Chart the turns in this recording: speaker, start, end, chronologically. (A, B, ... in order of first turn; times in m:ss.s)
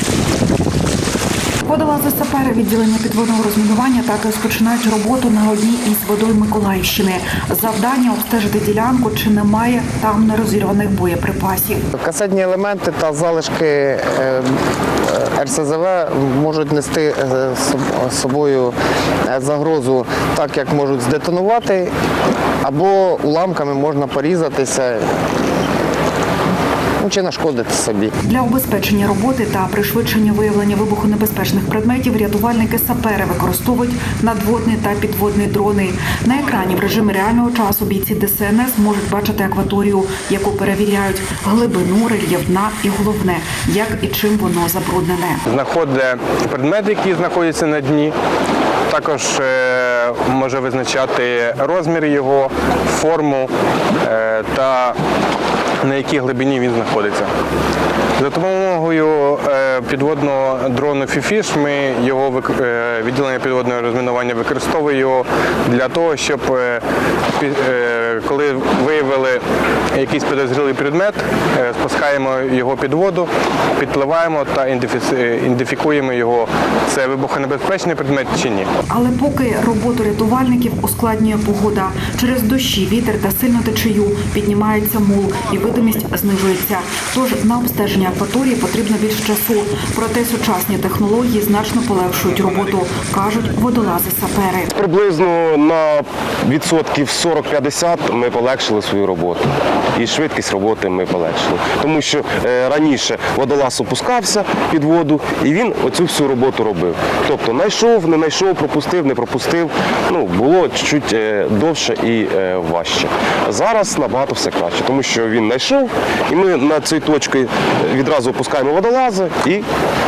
0:01.6-0:11.8 A
0:11.9-0:18.7 B
0:19.2-0:21.9 B
0:22.6-0:25.0 B
0:27.0-0:28.1 B
0:28.2-0:45.4 A
0:45.5-0:48.2 C
0:48.9-0:55.0 C
0:55.8-0:57.3 C
0:58.2-1:18.7 C
1:18.9-1:34.7 A
1:34.8-1:59.6 D